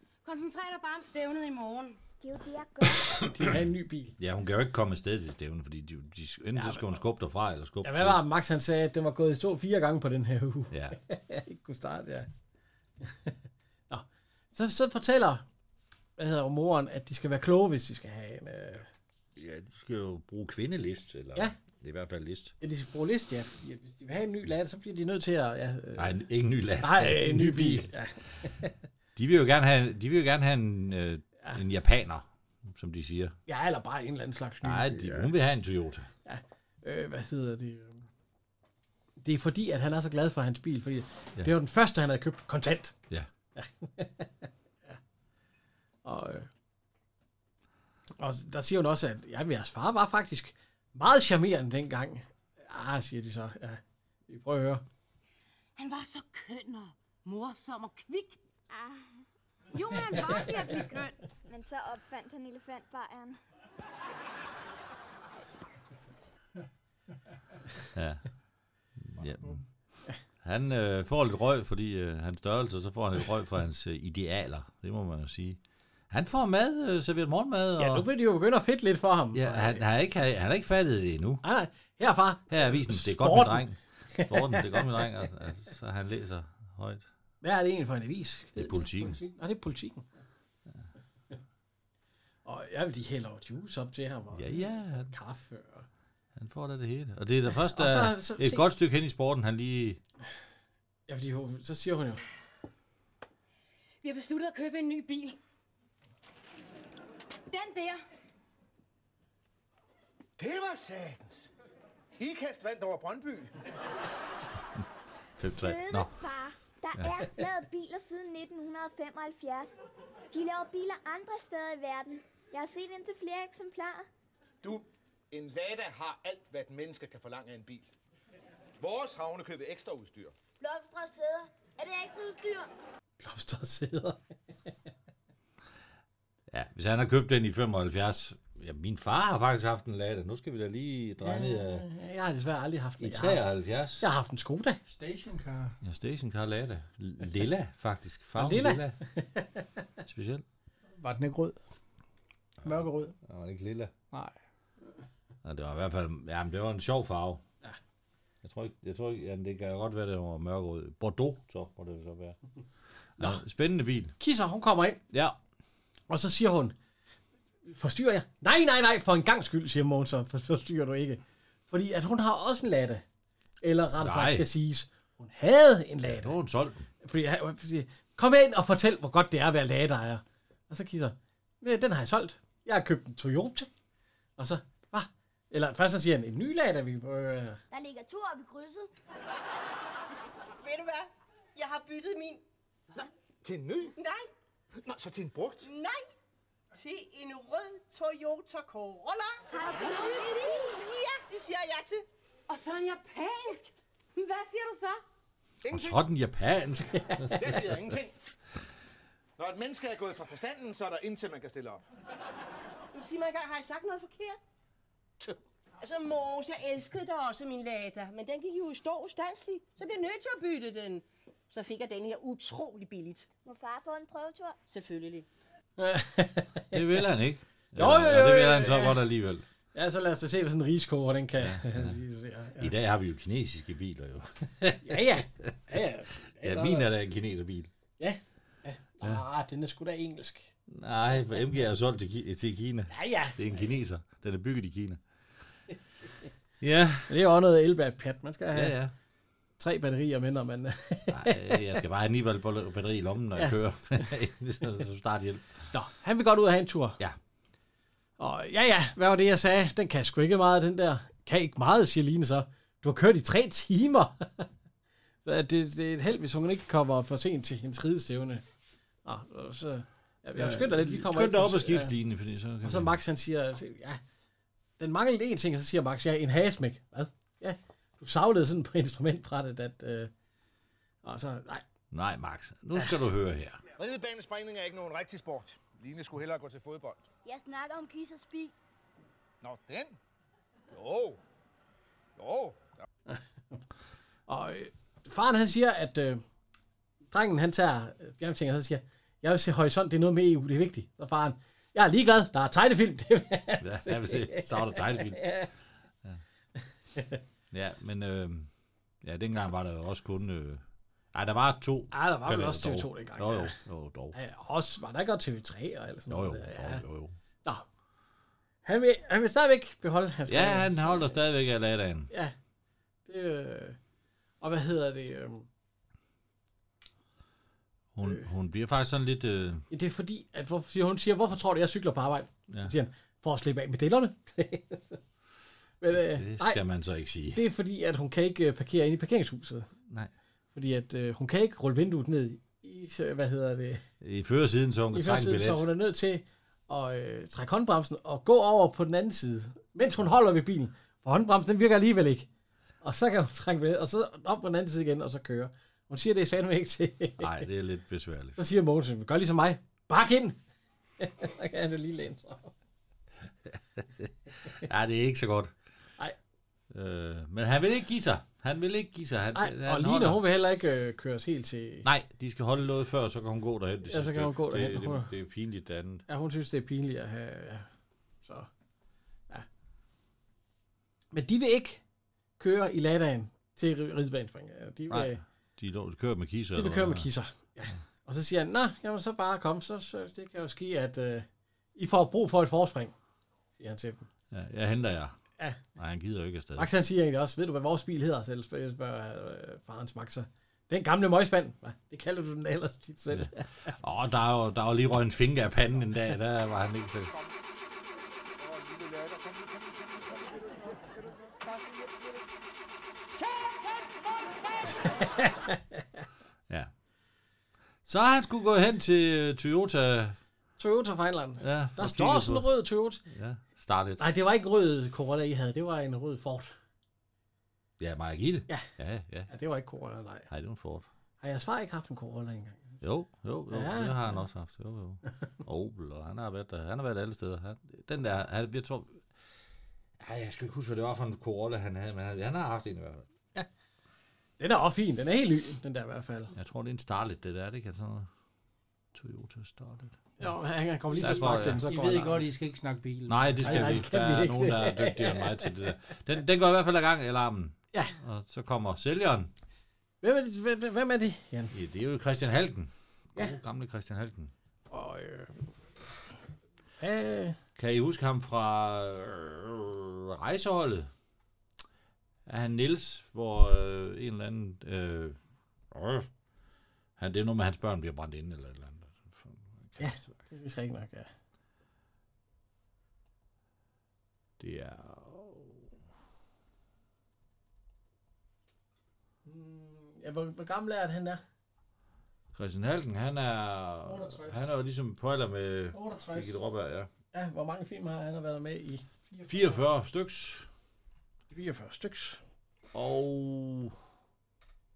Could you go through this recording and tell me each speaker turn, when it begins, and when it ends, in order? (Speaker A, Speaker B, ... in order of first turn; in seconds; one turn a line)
Speaker A: 0.2-2.0
Speaker B: 2.2-3.1
Speaker C: 3.1-4.2
Speaker D: 4.2-8.2
Speaker C: 6.5-7.0
Speaker C: 7.8-12.3
Speaker D: 10.7-11.0
Speaker C: 13.0-13.3
Speaker C: 13.9-15.4
Speaker C: 16.2-18.9
Speaker D: 19.4-22.5
Speaker C: 22.6-26.1
Speaker D: 26.0-27.9
Speaker C: 26.8-28.7
Speaker D: 29.1-33.4
Speaker C: 33.5-35.3
Speaker D: 34.6-36.1
Speaker C: 36.2-38.0
Speaker C: 39.2-42.9
Speaker C: 43.5-45.0
Speaker C: 46.0-46.5
Speaker C: 48.2-54.8
Speaker A: 55.8-58.4
Speaker B: 58.7-59.2
Speaker A: 59.7-61.1
Speaker B: 61.5-63.4
Speaker D: 67.9-68.3
Speaker D: 69.0-69.6
Speaker E: 69.3-69.6
Speaker D: 70.4-75.6
Speaker D: 76.1-78.1
Speaker C: 77.8-79.8
Speaker D: 79.3-81.4
Speaker C: 81.4-85.0
Speaker D: 82.5-87.0
Speaker C: 87.4-90.1
Speaker D: 88.6-89.2
Speaker E: 89.1-89.3
Speaker C: 92.4-95.9
Speaker D: 94.3-95.1
Speaker D: 96.3-100.0
Speaker C: 97.5-98.6
Speaker C: 101.1-102.2
Speaker A: 104.0-105.4
Speaker A: 107.5-108.0
Speaker F: 110.4-111.5
Speaker F: 112.2-113.6
Speaker D: 115.4-116.1
Speaker B: 115.4-119.8
Speaker D: 117.0-117.2
Speaker B: 120.3-124.1
Speaker F: 124.6-127.9
Speaker F: 128.8-130.3
Speaker G: 130.6-132.7
Speaker C: 133.2-134.7
Speaker D: 136.5-141.8
Speaker C: 141.2-143.4
Speaker D: 143.0-144.1
Speaker C: 144.0-144.8
Speaker E: 144.9-145.8
Speaker D: 145.8-149.0
Speaker C: 148.3-149.7
Speaker D: 150.0-150.4
Speaker E: 151.0-151.6
Speaker D: 152.6-153.9
Speaker E: 152.6-153.1
Speaker D: 155.4-157.4
Speaker D: 158.4-162.4
Speaker D: 163.2-164.2
Speaker C: 164.2-165.0
Speaker D: 165.1-165.4
Speaker C: 166.1-166.7
Speaker C: 167.6-173.0
Speaker C: 173.6-176.4
Speaker D: 174.0-174.5
Speaker D: 176.0-176.9
Speaker C: 177.0-183.7
Speaker C: 184.4-187.6
Speaker G: 187.7-188.9
Speaker H: 190.6-192.4
Speaker F: 193.0-193.9
Speaker H: 193.9-194.3
Speaker F: 194.8-195.7
Speaker H: 195.6-196.1
Speaker H: 196.7-202.1
Speaker B: 199.5-200.9
Speaker A: 202.5-205.0
Speaker F: 205.6-206.0
Speaker D: 205.7-208.0
Speaker F: 207.3-208.2
Speaker F: 209.4-211.8
Speaker H: 212.9-214.4
Speaker H: 215.8-223.3
Speaker B: 223.4-224.6
Speaker H: 224.7-225.2
Speaker C: 225.8-227.1
Speaker D: 226.7-229.4
Speaker C: 227.8-229.0
Speaker C: 229.7-232.7
Speaker D: 231.4-232.0
Speaker D: 232.6-237.7
Speaker C: 234.8-236.9
Speaker C: 238.0-240.5
Speaker D: 240.7-245.0
Speaker C: 242.9-243.6
Speaker D: 246.6-247.1
Speaker C: 247.1-248.8
Speaker D: 248.5-248.9
Speaker C: 249.6-251.8
Speaker D: 251.1-255.5
Speaker C: 253.3-254.0
Speaker C: 255.7-257.0
Speaker C: 258.2-264.5
Speaker C: 265.2-268.4
Speaker C: 269.0-271.9
Speaker D: 270.4-272.9
Speaker C: 272.6-274.0
Speaker C: 274.8-280.1
Speaker C: 281.0-281.6
Speaker D: 281.9-283.6
Speaker F: 283.7-287.1
Speaker G: 287.2-288.5
Speaker F: 289.4-290.0
Speaker F: 290.7-291.2
Speaker F: 292.2-292.7
Speaker C: 293.1-293.6
Speaker C: 294.3-296.2
Speaker C: 297.1-305.5
Speaker D: 303.6-305.4
Speaker C: 306.9-307.2
Speaker D: 307.5-308.5
Speaker D: 309.0-314.1
Speaker C: 311.9-313.6
Speaker C: 314.1-316.8
Speaker D: 316.1-317.1
Speaker C: 318.6-321.1
Speaker D: 320.3-322.1
Speaker C: 323.1-323.8
Speaker C: 324.4-325.5
Speaker D: 327.9-329.6
Speaker C: 329.7-335.0
Speaker D: 332.5-332.7
Speaker C: 335.8-336.6
Speaker D: 335.9-337.4
Speaker C: 337.3-339.7
Speaker C: 340.5-343.8
Speaker D: 344.0-345.7
Speaker C: 344.9-352.3
Speaker C: 352.8-357.5
Speaker D: 357.2-358.4
Speaker C: 358.4-360.4
Speaker C: 361.0-362.5
Speaker D: 363.5-365.5
Speaker D: 366.7-370.2
Speaker C: 369.3-371.9
Speaker D: 371.8-376.0
Speaker C: 373.9-375.1
Speaker C: 376.1-377.7
Speaker C: 378.2-378.5
Speaker C: 381.1-381.8
Speaker C: 382.4-385.2
Speaker D: 384.9-387.1
Speaker C: 386.5-392.9
Speaker C: 393.6-394.1
Speaker D: 394.3-395.1
Speaker D: 395.8-396.7
Speaker C: 396.6-403.8
Speaker D: 403.1-407.1
Speaker F: 408.4-412.0
Speaker F: 413.1-415.4
Speaker C: 415.2-416.0
Speaker D: 417.8-420.2
Speaker C: 420.6-423.0
Speaker D: 421.4-422.5
Speaker D: 423.1-424.1
Speaker C: 424.0-426.5
Speaker D: 427.8-429.3
Speaker C: 429.3-430.3
Speaker D: 430.3-430.9
Speaker C: 431.2-432.8
Speaker D: 432.8-439.1
Speaker C: 433.5-434.2
Speaker D: 440.0-443.1
Speaker C: 444.4-446.3
Speaker D: 446.3-448.1
Speaker D: 448.9-450.0
Speaker C: 450.2-452.3
Speaker E: 450.9-453.8
Speaker D: 451.0-451.6
Speaker D: 453.1-459.3
Speaker C: 453.4-455.5
Speaker C: 460.0-461.5
Speaker D: 461.5-464.3
Speaker C: 464.7-465.4
Speaker C: 466.8-467.4
Speaker D: 467.6-470.9
Speaker D: 472.2-475.2
Speaker D: 475.7-476.1
Speaker D: 477.0-480.2
Speaker C: 479.8-481.1
Speaker D: 484.4-485.7
Speaker C: 489.2-491.2
Speaker D: 492.3-496.9
Speaker E: 493.9-494.5
Speaker E: 495.7-496.4
Speaker C: 497.1-498.8
Speaker E: 499.1-499.6
Speaker D: 499.3-500.5
Speaker C: 501.3-502.2
Speaker D: 502.7-503.7